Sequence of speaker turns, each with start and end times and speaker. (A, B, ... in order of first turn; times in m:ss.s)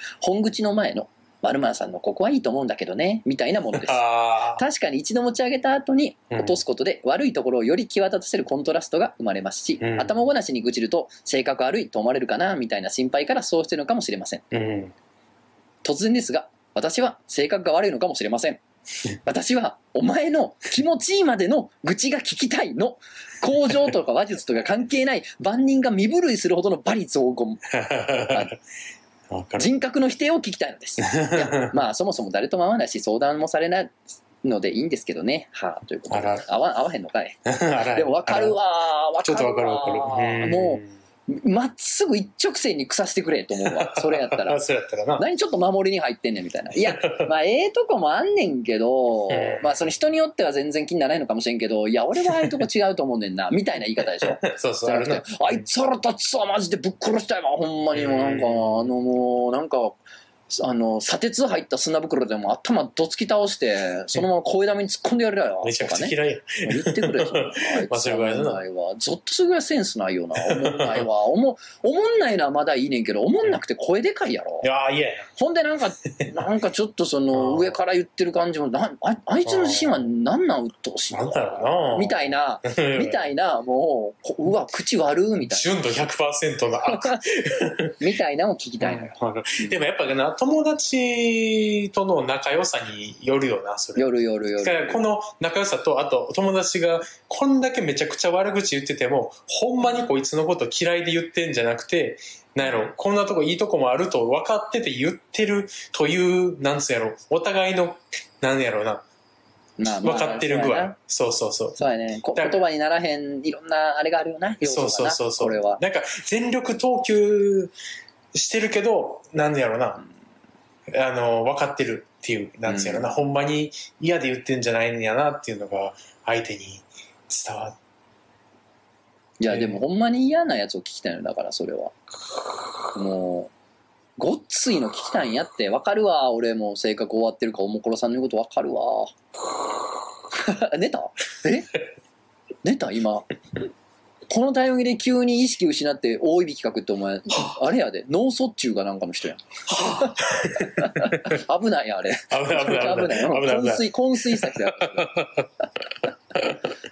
0:00.2-0:14.4 A
0:03.7-0:04.6 B
0:06.3-0:06.6 B
0:09.8-0:10.1 B
0:14.5-0:14.9 B
0:15.8-0:18.6 A
0:19.2-0:27.7 A
0:27.7-0:28.6 B
0:28.3-0:28.5 A
0:29.3-0:29.7 B
0:29.6-0:37.4 A
0:31.1-0:31.7 B
0:36.1-0:36.5 B
0:37.4-0:38.6 B
0:37.9-0:44.6 A
0:39.2-0:40.9 B
0:43.6-0:45.2 B
0:45.2-1:00.0 A
0:46.9-0:47.3 B
0:49.3-0:49.9 B
0:54.4-0:55.6 B
0:57.9-0:58.8 B
1:00.5-1:14.7 A
1:05.6-1:08.6 B
1:10.4-1:11.1 B
1:14.6-1:15.3 B
1:15.4-1:25.8 A
1:17.3-1:17.8 B
1:19.4-1:20.0 B
1:21.1-1:23.2 B
1:25.5-1:28.0 B
1:27.0-1:27.2 A
1:28.0-1:29.8 A
1:28.8-1:34.1 B
1:34.0-1:35.0 A
1:34.6-1:49.0 B
1:49.8-1:51.0 A
1:49.8-1:51.8 B
1:51.8-1:55.8 A
1:52.4-1:52.6 B
1:54.6-1:57.7 B
1:58.3-2:00.0 B
2:00.9-2:07.8 B
2:02.7-2:03.1 A
2:09.4-2:11.9 A
2:09.5-2:09.8 B
2:12.9-2:13.5 A
2:14.2-2:19.1 A
2:20.3-2:21.7 A
2:22.6-2:23.3 A
2:24.3-2:35.3 A
2:29.7-2:31.4 B
2:32.3-2:35.5 B